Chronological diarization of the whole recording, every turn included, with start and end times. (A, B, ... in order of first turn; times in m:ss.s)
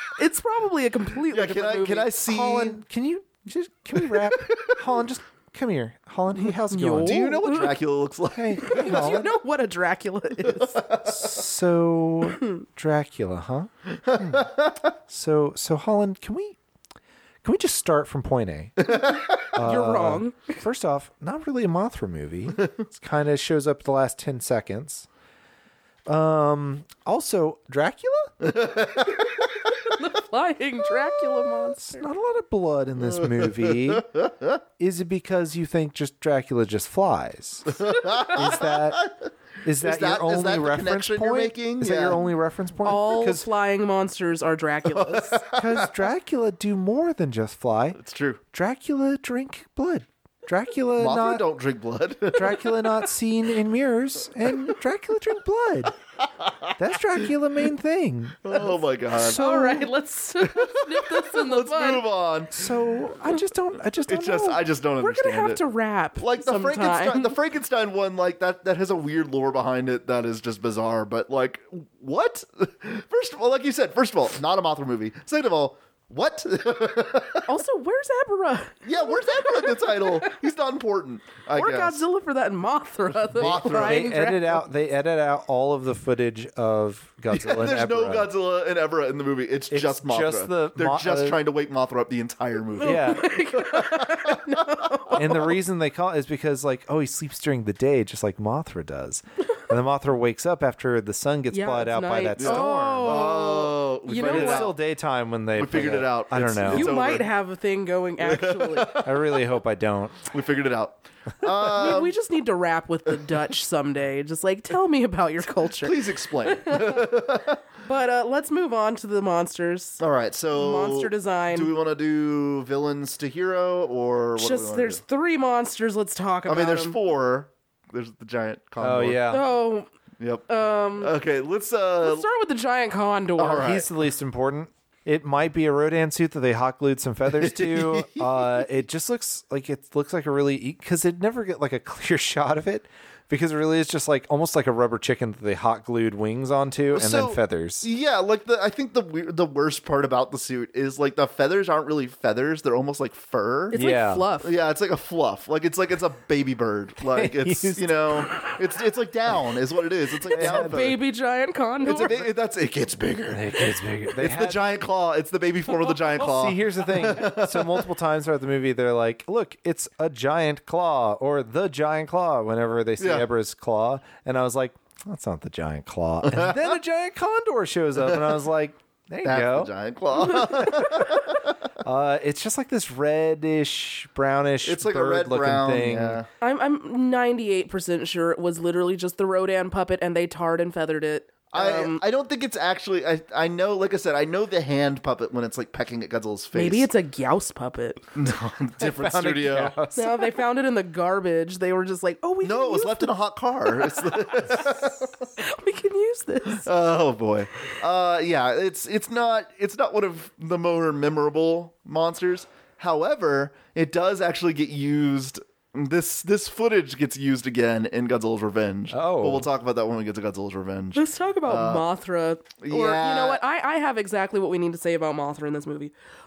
0:00.2-0:02.3 A
0:01.3-0:02.8 B
0:02.2-0:07.6 C
0:04.0-0:04.8 B
0:06.7-0:07.7 A
0:06.9-0:09.3 B
0:08.3-0:09.3 C
0:08.6-0:10.8 A
0:10.4-0:11.4 B
0:11.0-0:14.5 C
0:14.0-0:14.8 B
0:15.1-0:16.6 C
0:17.4-0:18.9 C
0:18.8-0:19.2 B
0:19.5-0:25.1 C
0:19.6-0:20.6 A
0:26.1-0:28.4 C
0:28.4-0:29.5 B
0:29.9-0:32.0 A
0:31.8-0:34.1 C
0:33.0-0:34.6 B
0:34.8-0:39.1 C
0:37.7-0:39.1 B
0:39.6-0:43.4 C
0:39.8-0:42.2 B
0:42.8-0:45.4 A
0:44.9-0:45.9 B
0:45.5-0:48.0 C
0:48.0-0:48.4 B
0:48.5-0:51.5 C
0:51.0-0:52.8 B
0:52.3-0:56.0 C
0:56.4-0:56.7 B
0:56.8-0:59.9 C
0:58.4-0:59.4 B
0:59.3-1:02.0 A
1:00.4-1:03.1 B
1:02.5-1:04.6 C
1:04.1-1:05.6 B
1:05.0-1:07.3 A
1:06.2-1:17.5 B
1:17.4-1:20.3 A
1:18.8-1:22.0 B
1:21.5-1:24.6 A
1:23.3-1:24.0 B
1:23.6-1:28.3 C
1:27.3-1:35.2 B
1:29.7-1:31.4 C
1:32.8-1:35.5 A
1:32.8-1:33.3 C
1:35.2-1:43.2 C
1:41.5-1:44.7 A
1:42.4-1:44.8 B
1:44.2-1:46.9 C
1:45.6-1:47.2 B
1:46.7-1:49.0 A
1:48.2-1:49.2 B
1:49.0-1:50.3 C
1:50.3-1:52.1 B
1:51.7-2:00.0 A
1:55.8-1:57.6 B
2:00.0-2:05.0 B
2:00.5-2:01.7 A
2:04.4-2:07.0 A
2:06.4-2:09.2 B
2:08.8-2:09.5 C
2:09.3-2:09.9 A
2:10.2-2:10.4 B
2:10.5-2:11.1 A
2:11.0-2:12.2 B
2:12.0-2:13.8 A
2:13.4-2:13.9 B
2:13.6-2:27.9 C
2:17.3-2:18.6 B
2:26.9-2:33.8 B
2:33.7-2:34.5 A
2:33.7-2:34.3 C
2:34.4-2:41.0 B
2:37.1-2:38.5 C
2:40.3-2:40.9 C
2:40.3-2:42.2 A
2:41.8-2:47.9 B
2:43.3-2:44.6 C
2:46.1-2:59.7 C
2:53.0-2:53.3 B
2:56.3-2:56.6 B
2:58.0-2:58.3 B
2:59.2-3:01.5 B
3:01.8-3:06.2 C
3:04.6-3:06.3 B
3:06.4-3:12.0 A
3:11.5-3:16.9 B
3:16.5-3:18.0 A
3:18.1-3:19.8 B
3:18.8-3:20.3 C
3:19.9-3:23.1 A
3:22.4-3:25.2 B
3:25.4-3:26.7 A
3:26.4-3:41.8 B
3:38.9-3:39.5 C
3:40.9-3:45.9 A
3:42.6-3:43.4 B